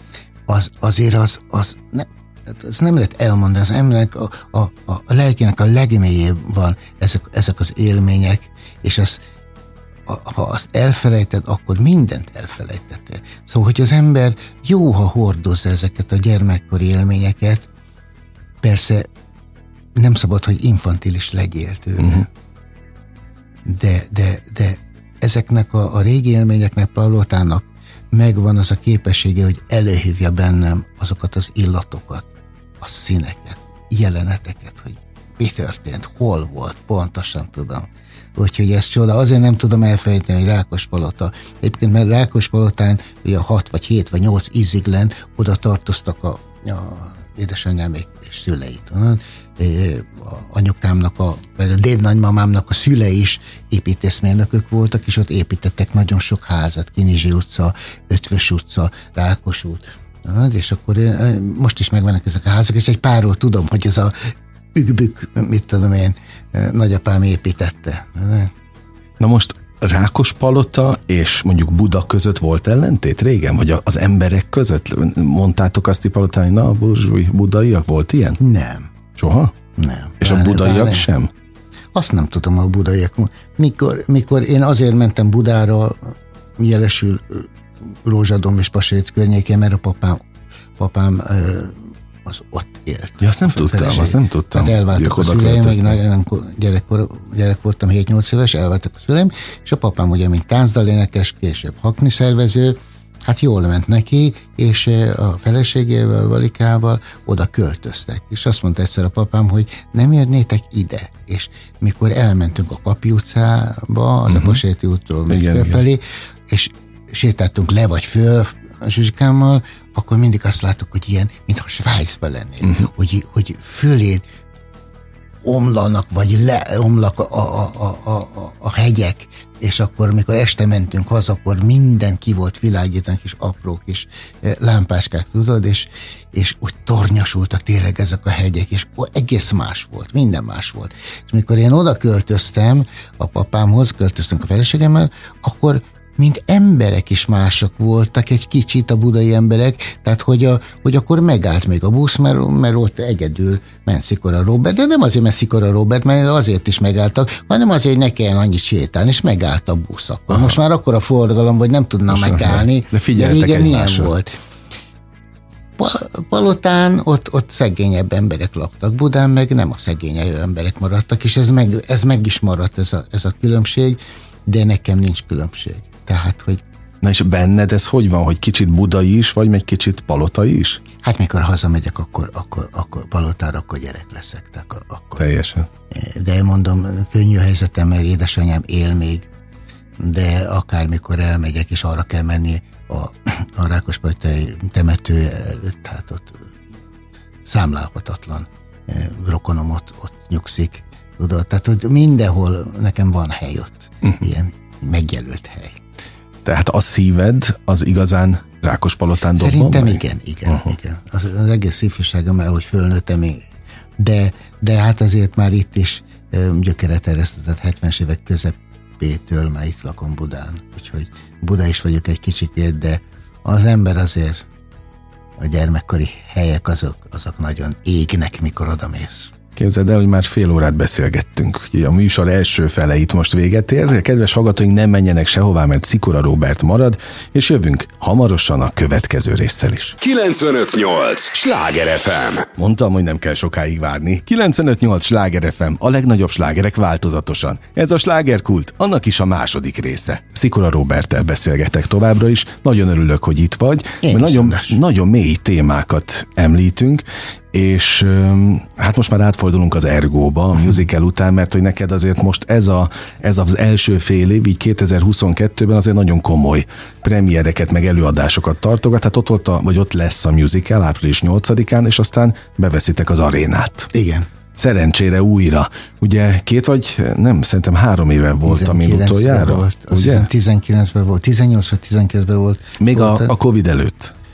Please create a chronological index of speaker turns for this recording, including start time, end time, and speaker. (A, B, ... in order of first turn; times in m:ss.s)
0:00.5-0:09.2 A
0:10.1-0:17.7 A
0:18.6-0:19.1 A
0:20.0-0:22.3 A
0:23.6-0:32.3 A
0:32.8-1:08.5 A
1:09.2-1:18.4 B
1:18.4-1:18.9 A
1:19.2-1:19.5 B
1:19.8-1:21.1 A
1:20.2-1:21.3 B
1:21.9-1:27.5 A
1:28.0-1:30.2 A
1:30.8-2:04.2 A
1:33.2-1:36.0 B
1:54.3-1:54.6 B
1:55.3-1:55.8 B
2:02.6-2:02.9 B
2:05.4-2:44.3 A
2:40.3-2:40.6 B
2:42.1-2:44.1 B
2:45.8-2:56.6 A
2:57.0-3:00.8 B
3:01.0-3:05.2 A
3:05.2-3:05.7 B
3:05.9-3:09.3 A
3:10.0-3:16.5 A
3:17.4-3:25.8 A
3:26.4-3:30.7 B
3:29.4-3:33.4 A
3:34.0-3:44.4 A
3:45.4-3:49.3 A
3:49.6-4:00.0 B
4:00.0-4:02.5 C
4:02.5-4:33.9 B
4:14.0-4:14.8 A
4:33.9-4:34.3 A
4:34.6-4:40.3 B
4:38.4-4:43.3 A
4:42.8-4:44.1 B